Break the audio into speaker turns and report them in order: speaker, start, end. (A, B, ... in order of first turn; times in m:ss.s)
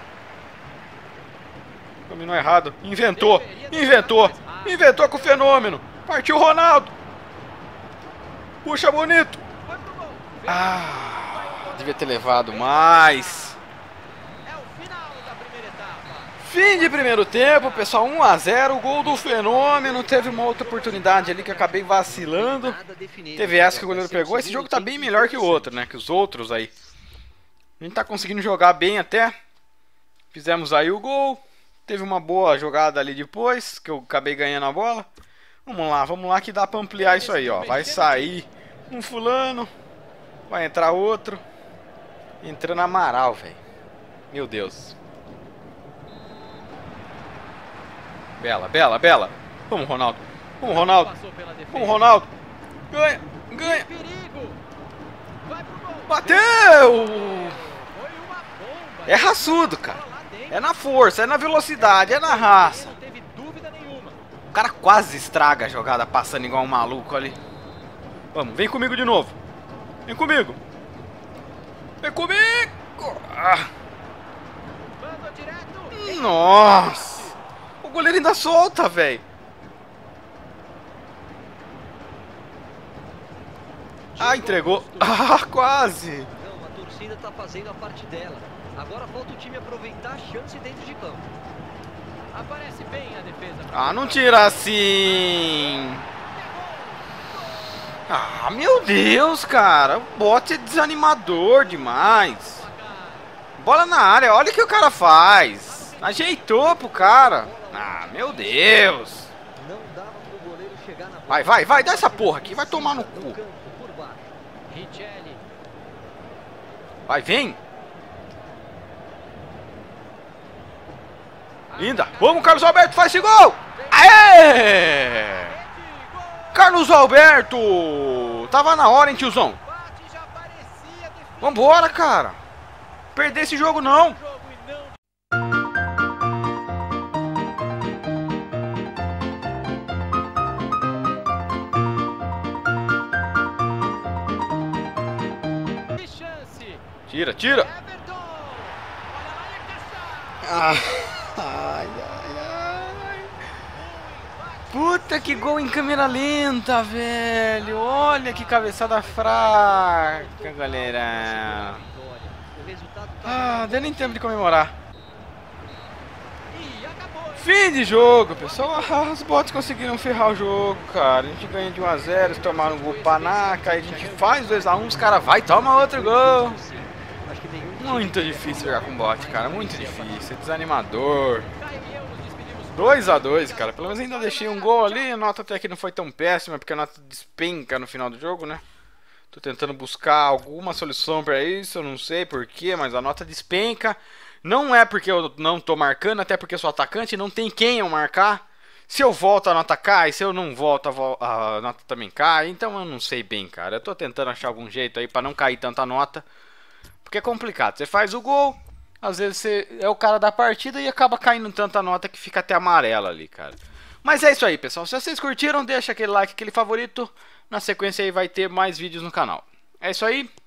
0:02.1-0:06.9 A
0:03.3-0:05.0 B
0:08.6-0:09.4 A
0:09.7-0:13.4 B
0:10.5-0:13.6 A
0:14.5-0:16.3 B
0:16.4-0:22.8 A
0:22.2-0:25.0 C
0:23.4-0:26.7 A
0:27.8-0:29.4 A
0:30.3-0:35.1 A
0:35.6-0:39.7 A
0:37.5-0:38.3 B
0:40.5-0:41.4 A
0:42.4-0:43.6 A
0:44.3-0:45.0 A
0:48.4-0:51.1 A
0:50.9-0:51.8 B
0:51.7-0:52.3 A
0:52.9-0:53.9 A
0:53.7-0:54.6 B
0:55.5-0:56.2 B
0:56.1-0:57.7 A
0:57.1-1:00.5 B
0:59.1-1:03.0 A
1:02.0-1:04.2 B
1:04.5-1:07.4 A
1:08.3-1:09.4 A
1:10.1-1:10.6 A
1:12.0-1:13.7 A
1:15.0-1:17.2 B
1:15.9-1:19.2 A
1:24.2-1:25.1 B
1:24.2-1:26.3 A
1:26.4-1:31.3 C
1:32.3-1:34.3 B
1:33.7-1:36.1 A
1:38.1-1:42.7 A
1:42.7-1:43.2 B
1:43.6-1:49.3 A
1:47.1-1:47.7 C
1:49.6-1:54.3 C
1:51.3-1:53.4 A
1:54.7-1:55.4 B
1:57.1-1:57.6 A
2:01.7-2:02.2 B
2:01.8-2:05.6 A
2:05.6-2:06.5 B
2:06.5-2:09.6 A
2:09.7-2:11.6 B
2:11.4-2:12.4 A
2:13.2-2:14.2 A
2:14.3-2:14.9 B
2:25.9-2:26.8 B
2:27.1-2:27.7 A
2:27.7-2:30.4 B
2:30.4-2:33.3 A
2:33.9-2:34.8 B
2:34.7-2:41.8 A
2:40.6-2:41.1 C
2:41.8-2:43.4 C
2:43.2-2:44.8 A
2:46.6-2:47.4 B
2:47.4-2:56.6 A
2:48.2-2:48.8 B
2:52.5-2:53.5 B
2:56.0-2:58.7 C
2:57.8-3:01.5 A
3:01.6-3:04.8 B
3:02.8-3:08.6 A
3:09.3-3:26.2 A
3:27.0-3:40.3 A